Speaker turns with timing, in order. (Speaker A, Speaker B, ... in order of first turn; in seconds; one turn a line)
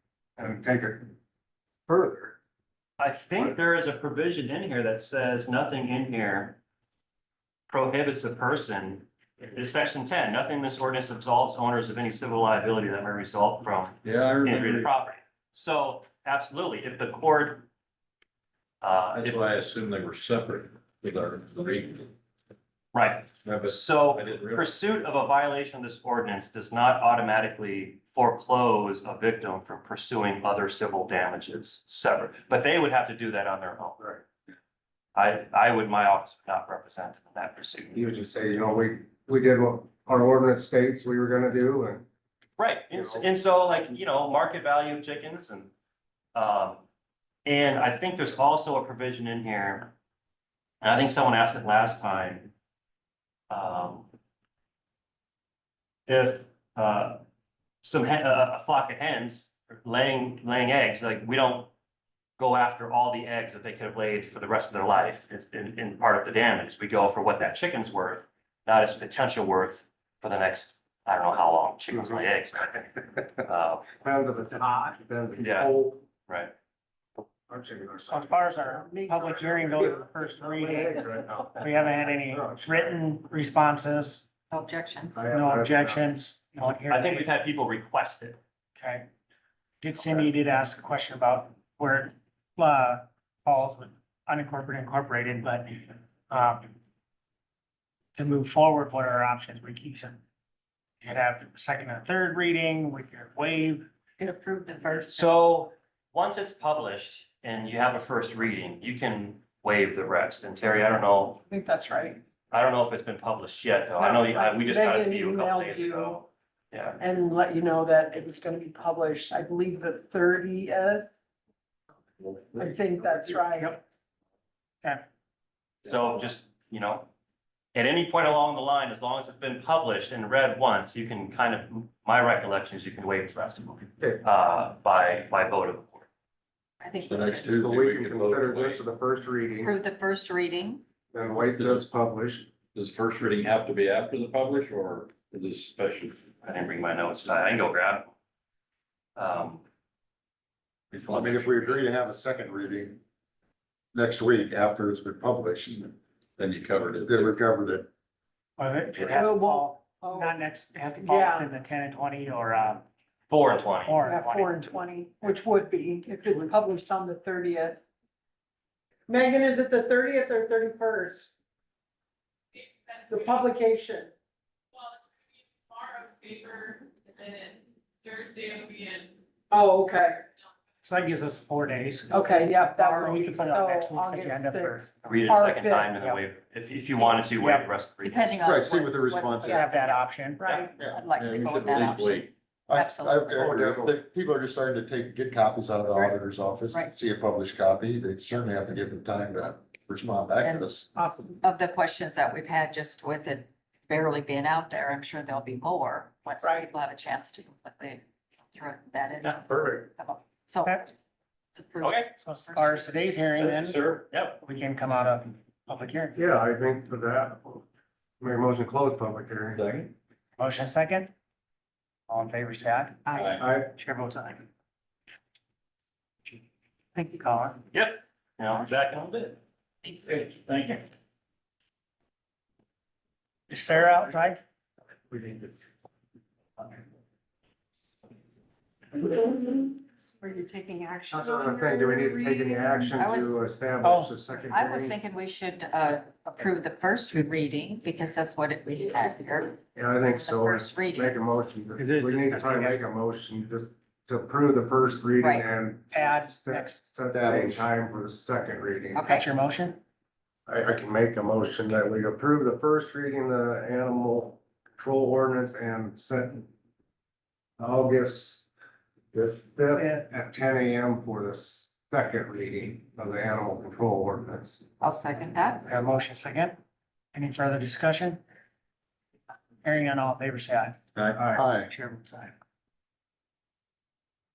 Speaker A: 0.4-1.1
Speaker A: 1.9-2.4
Speaker B: 3.0-6.6
Speaker B: 7.7-17.6
Speaker C: 14.0-14.9
Speaker B: 18.8-19.4
Speaker C: 19.1-22.1
Speaker B: 22.9-34.0
Speaker C: 23.4-24.7
Speaker B: 35.1-38.0
Speaker A: 37.9-42.0
Speaker B: 42.6-45.7
Speaker A: 42.9-43.2
Speaker B: 46.3-46.8
Speaker B: 47.5-49.9
Speaker B: 50.8-52.5
Speaker B: 53.5-54.1
Speaker B: 56.1-57.2
Speaker B: 57.8-61.7
Speaker B: 62.4-73.9
Speaker A: 74.0-76.0
Speaker B: 75.4-75.7
Speaker B: 76.3-76.5
Speaker A: 77.5-83.0
Speaker D: 78.1-81.0
Speaker E: 78.9-79.8
Speaker D: 81.6-84.2
Speaker F: 84.5-85.2
Speaker A: 85.1-86.1
Speaker D: 85.3-87.3
Speaker B: 86.9-88.4
Speaker D: 88.8-89.1
Speaker D: 89.8-96.7
Speaker D: 98.1-100.2
Speaker D: 101.0-103.8
Speaker F: 104.2-105.3
Speaker B: 105.1-111.4
Speaker E: 111.5-112.2
Speaker B: 112.5-117.0
Speaker E: 114.0-116.2
Speaker E: 117.0-121.1
Speaker E: 122.5-123.8
Speaker B: 125.8-127.1
Speaker B: 127.7-136.1
Speaker F: 136.8-137.7
Speaker C: 137.0-138.8
Speaker A: 137.5-139.8
Speaker F: 139.6-140.8
Speaker A: 141.1-142.5
Speaker C: 142.7-146.2
Speaker B: 146.4-148.1
Speaker B: 149.2-149.6
Speaker C: 150.9-151.8
Speaker G: 151.1-153.0
Speaker G: 153.9-155.9
Speaker C: 156.4-157.3
Speaker G: 157.0-157.9
Speaker D: 158.6-162.8
Speaker E: 158.9-161.5
Speaker B: 163.3-164.0
Speaker D: 163.8-164.5
Speaker E: 164.0-167.8
Speaker E: 169.1-171.3
Speaker H: 172.6-173.0
Speaker E: 173.1-174.1
Speaker H: 175.7-179.1
Speaker E: 179.5-180.2
Speaker D: 180.8-185.1
Speaker E: 182.1-185.9
Speaker B: 185.0-188.4
Speaker D: 185.9-186.2
Speaker F: 187.0-187.3
Speaker D: 187.4-187.7
Speaker F: 188.0-190.0
Speaker G: 188.4-189.7
Speaker D: 189.5-190.5
Speaker E: 190.4-190.9
Speaker F: 190.8-193.5
Speaker C: 191.1-192.3
Speaker G: 192.7-200.9
Speaker A: 193.3-193.9
Speaker F: 200.4-200.7
Speaker E: 200.9-201.4
Speaker F: 201.4-208.0
Speaker E: 206.4-206.7
Speaker F: 208.5-210.9
Speaker F: 211.5-212.8
Speaker B: 211.8-212.1
Speaker D: 212.2-213.8
Speaker C: 213.4-214.0
Speaker B: 214.1-214.4
Speaker D: 214.4-216.2
Speaker A: 216.1-217.6
Speaker A: 218.2-219.6
Speaker C: 219.5-219.9
Speaker D: 220.4-221.1
Speaker D: 222.1-223.1
Speaker F: 223.1-223.4
Speaker C: 223.1-223.5
Speaker A: 223.3-223.7
Speaker D: 223.7-224.4
Speaker D: 226.9-227.6
Speaker B: 227.7-229.4
Speaker C: 230.1-230.8
Speaker D: 233.5-234.4
Speaker A: 235.1-235.5
Speaker E: 239.0-242.8
Speaker F: 240.2-241.1
Speaker A: 241.1-245.0
Speaker F: 242.9-243.4
Speaker D: 243.8-244.2
Speaker F: 244.5-251.1
Speaker A: 249.7-259.1
Speaker D: 251.8-252.8
Speaker F: 255.2-255.5
Speaker D: 255.9-256.8
Speaker G: 257.1-257.6
Speaker F: 258.9-259.3
Speaker D: 259.1-259.8
Speaker A: 260.5-266.5
Speaker A: 267.6-268.5
Speaker A: 269.1-274.6
Speaker D: 269.7-270.0
Speaker F: 274.8-275.7
Speaker D: 275.6-276.6
Speaker D: 277.1-278.2
Speaker D: 279.6-280.8
Speaker A: 281.1-281.4
Speaker D: 281.3-282.3
Speaker G: 281.4-281.7